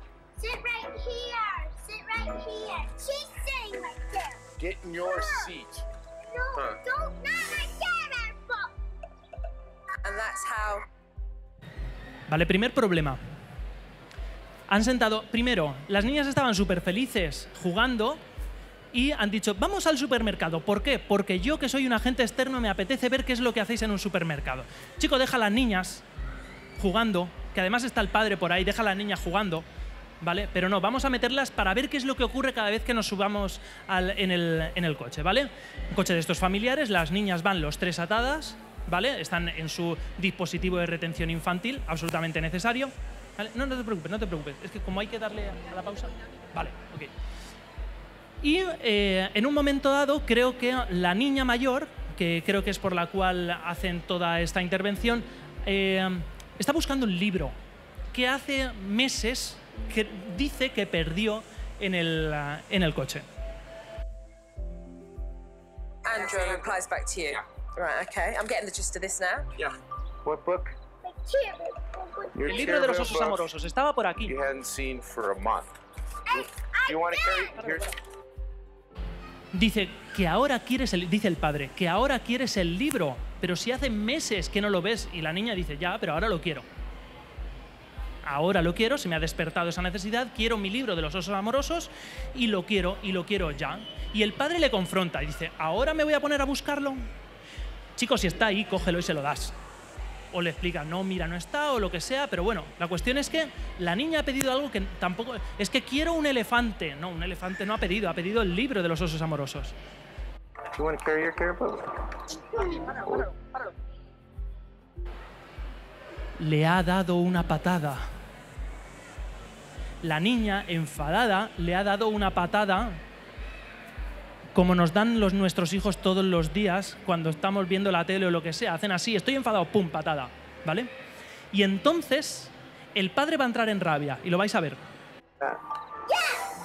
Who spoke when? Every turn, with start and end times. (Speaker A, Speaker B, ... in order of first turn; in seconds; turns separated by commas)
Speaker A: 0.4-4.4, Speaker B: 4.6-5.8, Speaker A: 5.0-5.5, Speaker A: 6.3-8.7, Speaker C: 10.0-10.9, Speaker D: 12.3-13.2, Speaker D: 14.7-18.2, Speaker D: 18.9-26.0, Speaker D: 26.8-29.6, Speaker D: 30.2-47.1, Speaker D: 48.4-57.5, Speaker D: 58.1-63.2, Speaker C: 66.0-69.5, Speaker B: 66.1-66.7, Speaker B: 69.5-70.8, Speaker A: 71.0-72.8, Speaker B: 72.3-73.4, Speaker D: 72.5-74.3, Speaker B: 74.2-75.7, Speaker A: 76.3-77.8, Speaker B: 76.3-77.9, Speaker D: 79.5-86.7, Speaker D: 88.2-97.0, Speaker D: 98.0-99.5, Speaker D: 100.3-109.7, Speaker B: 110.7-113.2, Speaker D: 116.4-118.0, Speaker D: 120.0-123.0, Speaker D: 124.5-130.9, Speaker D: 131.5-134.8, Speaker A: 136.1-136.4